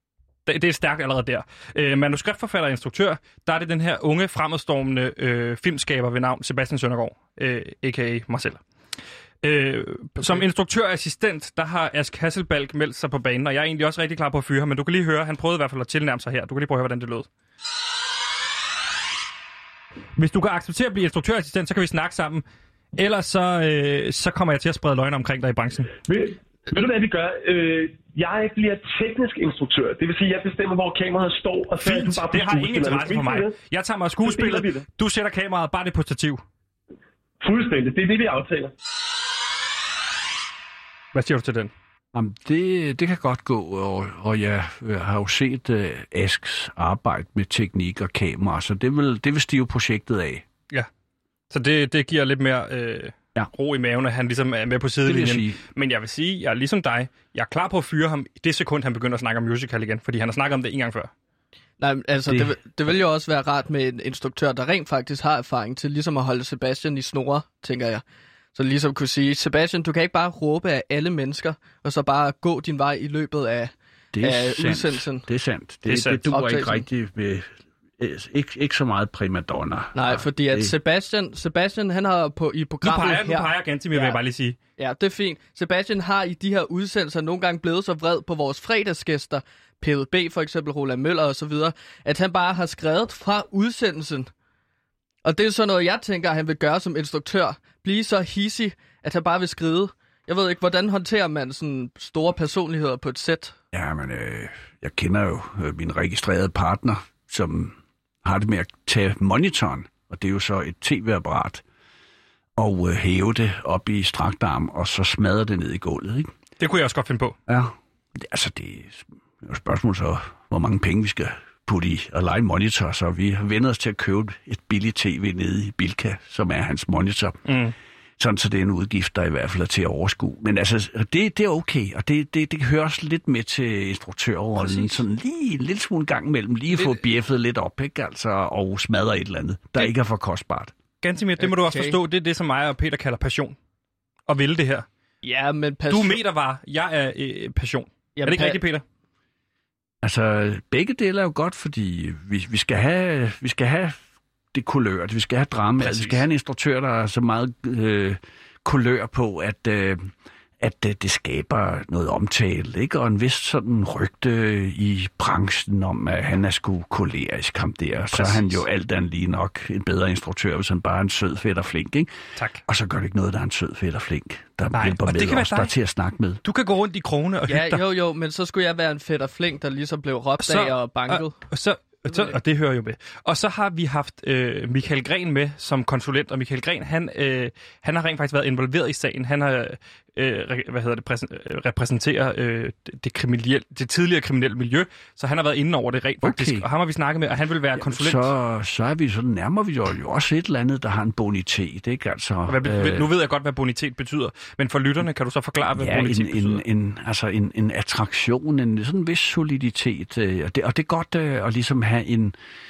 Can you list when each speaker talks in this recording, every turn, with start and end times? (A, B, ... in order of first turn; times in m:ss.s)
0:00.5-0:08.6 A
0:09.4-0:17.3 A
0:20.2-0:22.4 A
0:23.0-0:25.9 A
0:26.0-0:33.6 B
0:31.8-0:36.4 A
0:34.2-0:34.8 B
0:37.4-0:38.7 B
0:41.1-0:41.7 A
0:42.1-0:50.4 C
0:51.5-1:01.1 A
0:55.0-0:55.6 C
1:01.8-1:08.0 D
1:02.3-1:02.6 C
1:08.6-1:15.2 D
1:14.1-1:20.7 C
1:15.9-1:16.3 A
1:16.3-1:16.8 D
1:20.0-1:24.2 D
1:22.8-1:24.6 A
1:24.8-1:34.3 D
1:35.2-1:43.6 D
1:43.7-1:51.6 C
1:52.6-1:56.3 C
1:56.6-1:57.4 A
1:57.5-2:07.6 C
2:07.5-2:07.7 A
2:08.2-2:20.7 C
2:21.0-2:23.6 A
2:21.4-2:22.0 D
2:24.3-2:24.9 A
2:25.2-2:26.2 D
2:25.9-2:28.8 A
2:28.2-2:28.6 D
2:30.0-2:34.0 C
2:34.5-2:52.1 C
2:35.9-2:36.2 A
2:48.1-2:48.6 A
2:52.4-2:52.6 A
2:52.7-2:56.4 C
2:54.7-2:55.7 A
2:56.4-2:57.8 A
2:57.5-3:01.4 D
3:00.4-3:18.3 A
3:02.1-3:02.3 D
3:16.2-3:16.7 C
3:17.8-3:23.1 C
3:22.5-3:26.6 A
3:25.8-3:32.4 C